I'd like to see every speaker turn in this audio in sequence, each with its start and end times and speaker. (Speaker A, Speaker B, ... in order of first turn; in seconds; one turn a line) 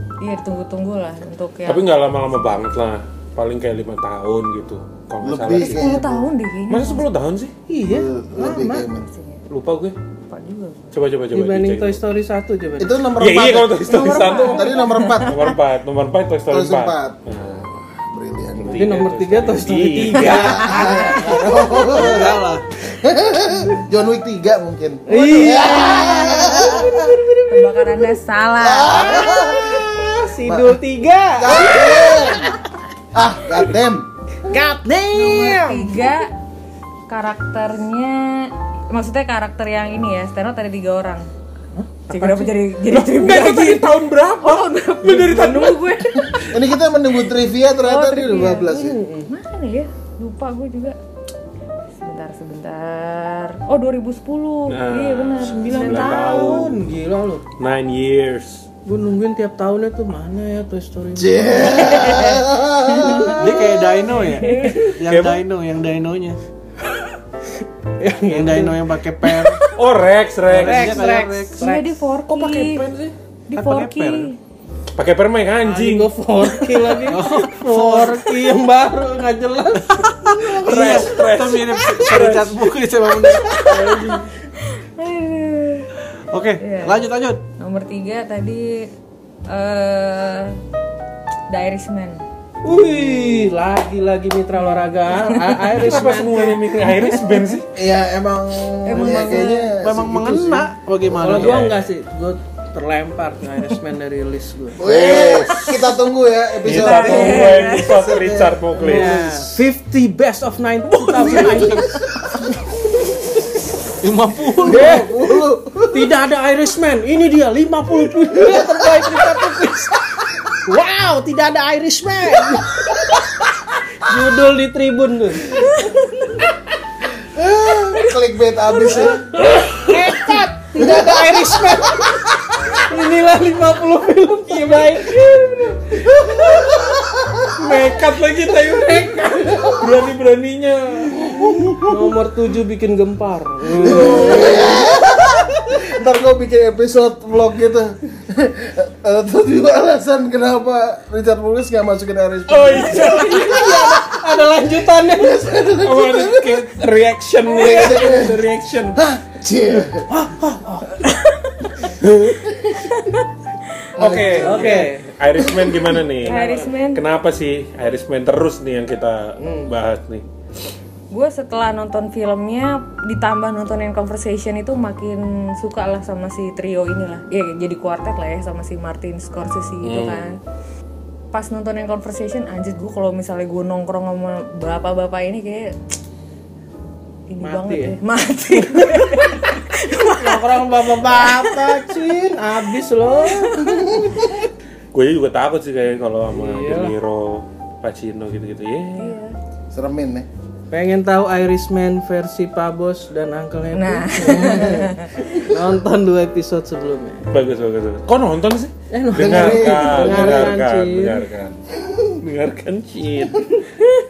Speaker A: 0.2-2.0
Speaker B: 1.6-5.9
Speaker C: 5.2-6.3
Speaker A: 5.5-7.0
Speaker B: 6.7-7.5
Speaker D: 7.7-8.8
Speaker C: 7.8-9.1
Speaker A: 9.0-9.4
Speaker B: 9.5-9.9
Speaker A: 10.3-10.9
Speaker B: 10.9-12.0
Speaker D: 11.3-13.0
Speaker C: 12.8-15.4
Speaker B: 13.2-17.6
Speaker A: 13.8-15.4
Speaker C: 16.5-18.9
Speaker B: 18.6-20.8
Speaker D: 18.7-21.9
Speaker C: 20.2-27.1
Speaker A: 20.2-20.9
Speaker E: 20.3-20.7
Speaker E: 21.7-22.6
Speaker D: 25.1-28.2
Speaker A: 27.5-29.4
Speaker C: 28.6-29.8
Speaker D: 28.8-32.6
Speaker C: 30.4-30.8
Speaker C: 31.4-32.5
Speaker C: 33.1-34.1
Speaker D: 34.5-36.1
Speaker A: 35.1-36.3
Speaker A: 37.1-41.2
Speaker D: 41.8-42.3
Speaker A: 42.1-46.5
Speaker B: 42.9-46.2
Speaker C: 46.5-49.0
Speaker A: 47.7-51.0
Speaker D: 48.7-49.3
Speaker A: 51.9-56.7
Speaker B: 54.7-56.8
Speaker D: 55.4-57.4
Speaker B: 57.6-58.6
Speaker D: 58.9-62.3
Speaker C: 61.1-63.6
Speaker A: 61.8-62.5
Speaker A: 63.0-63.4
Speaker E: 63.2-66.4
Speaker D: 64.1-64.9
Speaker A: 64.2-64.9
Speaker B: 65.0-65.4
Speaker D: 68.0-69.5
Speaker E: 68.3-69.6
Speaker B: 69.7-71.1
Speaker E: 70.5-71.7
Speaker D: 70.5-71.8
Speaker A: 71.5-72.9
Speaker B: 72.3-73.1
Speaker A: 73.5-74.4
Speaker E: 73.5-74.3
Speaker B: 74.9-76.1
Speaker D: 75.6-81.2
Speaker E: 77.0-78.3
Speaker B: 80.5-82.5
Speaker E: 80.5-83.8
Speaker A: 83.5-85.9
Speaker D: 83.6-84.3
Speaker E: 86.3-87.4
Speaker A: 86.6-87.0
Speaker A: 87.6-88.9
Speaker A: 89.5-90.6
Speaker A: 91.5-92.2
Speaker D: 92.6-96.6
Speaker A: 94.7-95.6
Speaker B: 95.7-97.7
Speaker A: 97.1-97.4
Speaker C: 97.7-100.7
Speaker A: 98.8-99.8
Speaker E: 99.8-101.7
Speaker D: 101.1-105.2
Speaker B: 101.3-101.8
Speaker C: 104.8-109.6
Speaker B: 104.8-105.7
Speaker A: 105.5-105.8
Speaker B: 106.6-109.2
Speaker A: 106.7-108.0
Speaker D: 108.8-111.9
Speaker E: 114.0-115.0
Speaker C: 114.6-116.1
Speaker D: 114.7-115.1
Speaker D: 115.9-120.0
Speaker C: 118.3-119.1
Speaker D: 120.6-123.0
Speaker C: 123.0-123.3
Speaker D: 124.0-125.9
Speaker C: 127.2-129.4
Speaker A: 127.9-128.2
Speaker A: 128.8-129.2
Speaker D: 129.3-136.7
Speaker C: 130.8-132.2
Speaker C: 136.2-137.5
Speaker B: 137.5-141.8
Speaker D: 141.8-144.8
Speaker C: 143.8-154.0
Speaker B: 143.8-144.8
Speaker B: 152.5-153.7
Speaker D: 152.9-155.4
Speaker C: 155.0-156.7
Speaker B: 155.8-159.0
Speaker C: 157.5-160.1
Speaker D: 160.1-161.2
Speaker B: 162.0-162.4
Speaker A: 162.9-163.2
Speaker C: 164.0-164.9
Speaker B: 164.0-170.2
Speaker D: 164.4-165.1
Speaker A: 166.2-167.0
Speaker D: 166.2-166.7
Speaker D: 169.4-169.7
Speaker A: 171.1-180.4
Speaker B: 179.8-180.4
Speaker A: 181.3-185.8
Speaker A: 187.3-191.8
Speaker D: 187.4-188.0
Speaker D: 190.0-194.1
Speaker A: 193.3-194.0
Speaker B: 194.9-199.2
Speaker D: 196.3-196.9
Speaker A: 198.9-199.3
Speaker C: 199.7-200.3
Speaker D: 200.7-207.3
Speaker A: 203.7-205.3
Speaker B: 207.3-211.6
Speaker D: 208.9-211.2
Speaker C: 209.1-210.6
Speaker B: 212.2-213.4